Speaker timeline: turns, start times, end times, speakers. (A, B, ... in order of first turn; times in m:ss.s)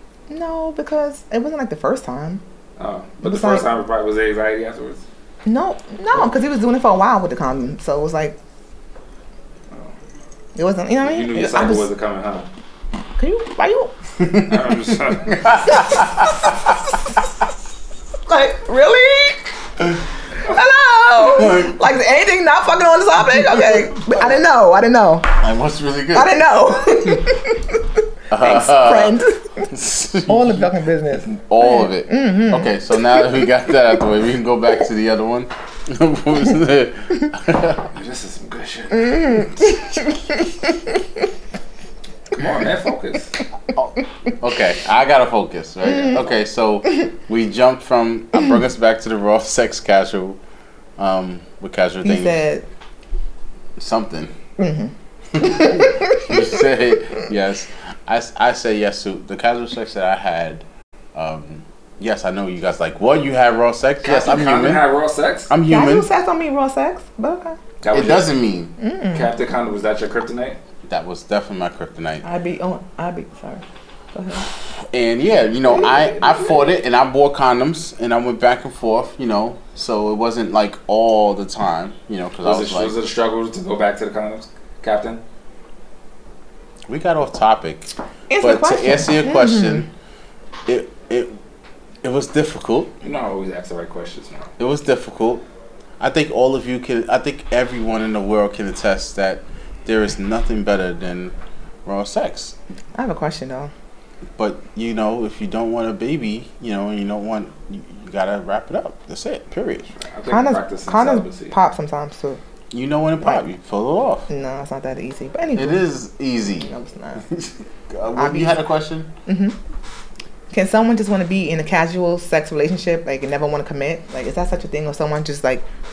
0:00.3-0:02.4 A
0:02.8-0:05.0 B
0:03.2-0:03.7 A
0:05.5-0:08.4 A
0:10.6-0:11.9 A
0:11.0-0:12.5 B
0:13.2-0:13.9 A
0:14.2-0:16.8 C
0:14.5-0:16.0 B
0:15.7-0:17.2 A
0:18.3-0:19.5 A
0:20.4-0:25.3 A
0:21.2-0:21.8 C
0:23.3-0:24.2 C
0:25.4-0:26.4 C
0:26.1-0:29.7 A
0:28.3-0:30.7 C
0:30.3-0:33.4 A
0:31.3-0:37.9 C
0:37.9-0:39.6 B
0:38.9-0:41.0 A
0:42.3-0:43.4 B
0:43.8-0:50.4 C
0:45.9-0:46.2 A
0:51.0-0:52.4 C
0:52.0-0:52.7 A
0:53.8-0:54.3 C
0:54.6-0:56.6 A
0:55.3-1:00.6 C
1:01.2-1:04.8 C
1:04.0-1:05.5 B
1:05.5-1:06.1 C
1:05.7-1:07.6 A
1:07.8-1:08.3 B
1:07.9-1:08.7 C
1:08.8-1:09.3 A
1:09.1-1:10.6 B
1:10.9-1:12.2 C
1:12.2-1:14.5 A
1:14.9-1:22.9 C
1:15.7-1:16.5 A
1:22.4-1:25.2 B
1:26.9-1:29.9 C
1:28.3-1:29.9 A
1:30.7-1:31.4 C
1:32.0-1:32.9 C
1:33.0-1:34.5 B
1:34.6-1:35.4 C
1:36.0-1:41.3 C
1:41.8-1:42.6 C
1:43.0-1:43.7 A
1:44.4-1:49.9 C
1:50.0-1:51.6 B
1:50.3-1:52.4 A
1:52.7-1:54.3 C
1:54.3-1:55.8 A
1:55.6-1:56.7 C
1:56.5-1:57.2 A
1:57.2-1:59.1 C
1:58.2-1:58.6 A
1:59.3-1:59.6 A
2:00.5-2:05.6 A